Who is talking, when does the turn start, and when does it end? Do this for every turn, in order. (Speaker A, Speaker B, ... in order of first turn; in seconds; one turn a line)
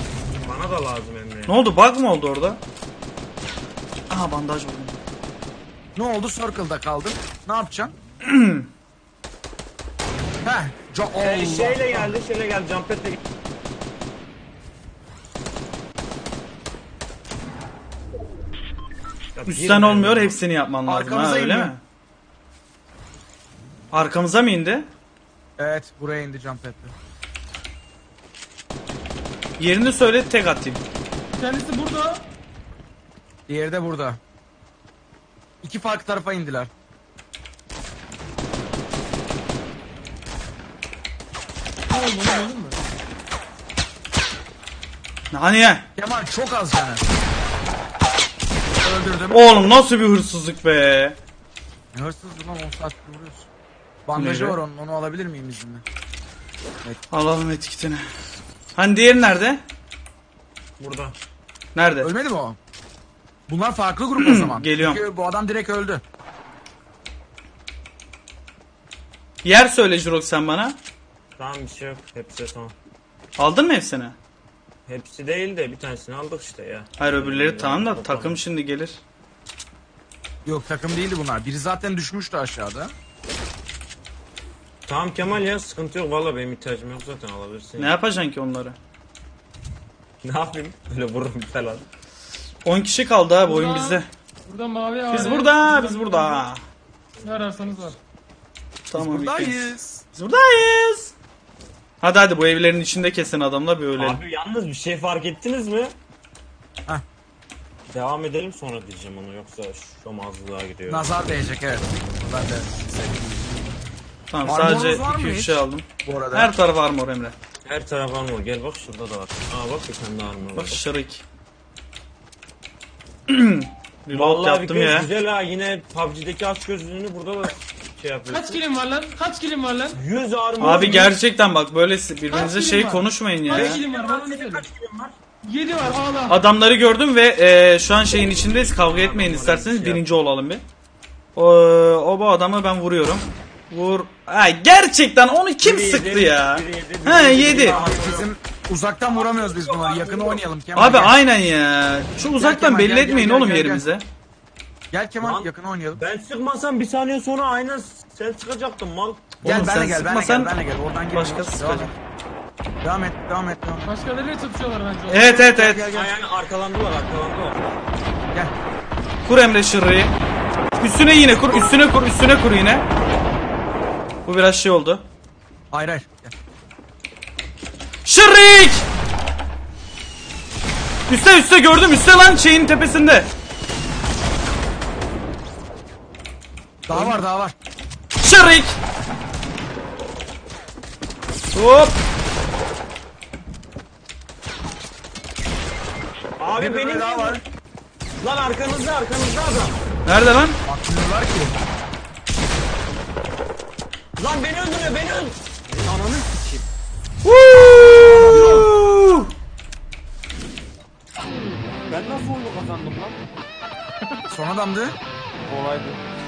Speaker A: 0.3-1.6
Speaker B: 1.5-2.6
Speaker B: 4.1-4.9
Speaker C: 6.0-7.9
Speaker B: 8.2-8.7
Speaker C: 10.4-12.2
Speaker A: 11.2-13.2
Speaker A: 19.4-20.4
Speaker B: 19.5-21.8
Speaker C: 20.9-21.7
Speaker B: 23.9-24.9
Speaker C: 25.6-26.9
Speaker B: 29.6-30.8
Speaker D: 31.3-32.2
Speaker C: 33.5-34.2
Speaker C: 35.6-36.7
Speaker D: 41.9-42.8
Speaker B: 45.3-45.9
Speaker C: 46.0-47.1
Speaker C: 48.8-49.5
Speaker B: 49.3-51.2
Speaker C: 51.9-53.5
Speaker C: 54.1-55.8
Speaker B: 54.2-54.6
Speaker B: 57.1-58.0
Speaker B: 58.8-59.6
Speaker A: 60.8-61.2
Speaker B: 61.8-62.1
Speaker C: 62.0-62.6
Speaker C: 63.5-66.0
Speaker B: 64.2-65.0
Speaker B: 69.4-70.8
Speaker A: 71.4-72.8
Speaker B: 73.4-74.2
Speaker A: 74.9-78.4
Speaker B: 77.0-79.0
Speaker C: 80.4-82.9
Speaker A: 84.8-88.0
Speaker B: 87.8-88.8
Speaker A: 90.2-91.8
Speaker B: 92.7-94.1
Speaker D: 93.4-96.5
Speaker B: 95.1-96.6
Speaker A: 97.2-97.9
Speaker D: 97.2-98.0
Speaker B: 98.9-101.1
Speaker C: 98.9-100.0
Speaker B: 102.0-104.2
Speaker A: 104.0-105.9
Speaker A: 107.9-111.1
Speaker C: 110.9-113.6
Speaker B: 114.3-117.3
Speaker C: 114.4-116.5
Speaker A: 117.6-120.9
Speaker B: 120.5-121.2
Speaker B: 123.3-125.1
Speaker A: 124.1-128.6
Speaker D: 128.3-130.0
Speaker A: 129.9-131.2
Speaker B: 130.6-133.8
Speaker D: 130.8-131.1
Speaker D: 132.3-134.7
Speaker A: 133.5-135.2
Speaker D: 135.4-136.4
Speaker B: 136.3-140.6
Speaker A: 138.7-140.2
Speaker B: 141.4-147.8
Speaker A: 145.6-148.3
Speaker C: 147.6-151.2
Speaker A: 149.1-150.4
Speaker B: 150.7-154.1
Speaker C: 152.4-153.8
Speaker C: 154.9-156.0
Speaker A: 155.2-159.4
Speaker B: 159.4-160.6
Speaker C: 159.4-161.9
Speaker B: 161.1-161.9
Speaker C: 162.8-163.9
Speaker D: 163.8-165.4
Speaker B: 165.1-166.1
Speaker C: 165.2-166.1
Speaker A: 165.9-167.7
Speaker B: 169.2-170.1
Speaker B: 170.8-172.9
Speaker B: 174.2-175.0
Speaker C: 175.7-176.3
Speaker B: 178.1-178.9
Speaker B: 181.1-183.3
Speaker C: 186.9-187.5
Speaker B: 186.9-187.2
Speaker B: 188.2-188.8
Speaker B: 191.5-192.0
Speaker A: 196.4-197.4
Speaker C: 196.5-197.4
Speaker A: 198.2-199.8
Speaker B: 200.1-200.6
Speaker C: 200.7-201.5
Speaker A: 204.2-206.7
Speaker B: 207.2-209.3
Speaker C: 208.0-208.7
Speaker A: 211.9-213.2
Speaker C: 214.3-214.9
Speaker A: 215.5-216.0